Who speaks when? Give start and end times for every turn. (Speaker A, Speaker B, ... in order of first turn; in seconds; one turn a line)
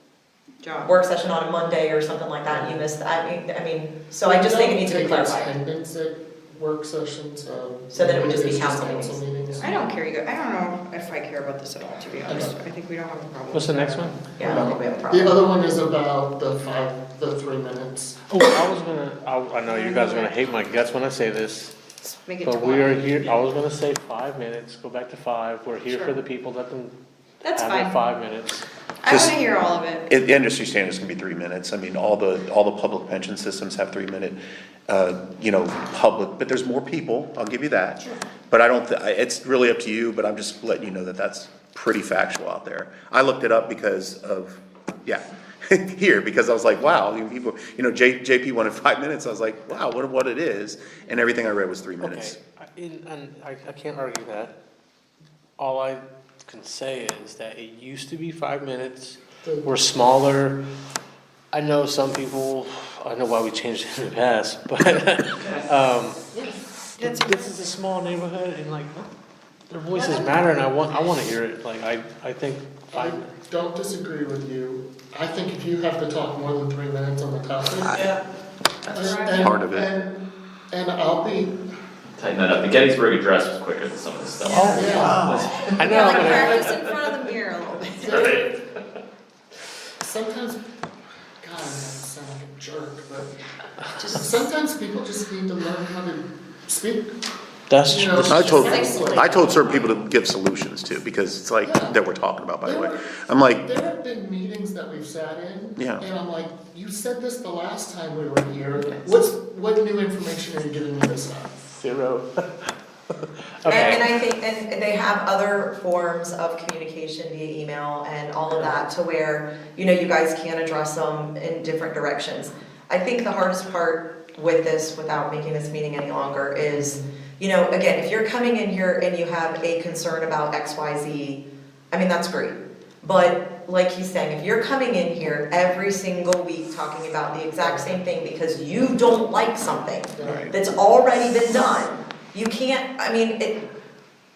Speaker A: 0.6-1.0
Speaker B: 0.8-5.5
Speaker C: 2.5-2.8
Speaker C: 4.2-9.8
Speaker B: 7.9-9.6
Speaker A: 9.6-14.3
Speaker C: 12.2-12.6
Speaker D: 13.5-14.2
Speaker B: 14.3-15.3
Speaker C: 14.4-18.3
Speaker D: 18.3-21.8
Speaker A: 19.6-20.3
Speaker A: 22.0-23.4
Speaker D: 22.4-26.9
Speaker A: 25.9-26.1
Speaker A: 27.4-28.0
Speaker D: 27.5-28.6
Speaker A: 29.0-30.1
Speaker E: 29.1-29.4
Speaker E: 30.1-52.4
Speaker D: 52.0-54.5
Speaker D: 55.6-60.6
Speaker C: 59.4-59.7
Speaker D: 61.5-66.2
Speaker C: 66.3-66.6
Speaker A: 67.0-67.7
Speaker D: 67.0-69.1
Speaker D: 69.7-73.3
Speaker C: 72.9-78.1
Speaker B: 77.8-78.2
Speaker A: 78.9-79.5
Speaker C: 78.9-81.5
Speaker E: 79.4-79.9
Speaker F: 82.2-86.9
Speaker A: 84.4-88.2
Speaker D: 84.4-84.9
Speaker C: 84.7-85.2
Speaker E: 85.0-85.4
Speaker D: 85.8-86.6
Speaker C: 88.0-88.5
Speaker F: 88.1-88.5
Speaker C: 90.0-90.6
Speaker C: 91.4-93.3
Speaker A: 94.0-94.4
Speaker C: 94.1-97.1
Speaker D: 97.7-98.6
Speaker C: 97.8-99.9
Speaker E: 98.2-103.7
Speaker A: 98.6-99.9
Speaker C: 101.6-102.0
Speaker C: 102.6-103.0
Speaker C: 103.6-111.6
Speaker E: 105.8-106.0
Speaker D: 111.8-114.1
Speaker B: 113.7-143.6
Speaker C: 126.7-127.0
Speaker C: 137.6-138.0
Speaker C: 140.2-140.5
Speaker E: 140.2-140.5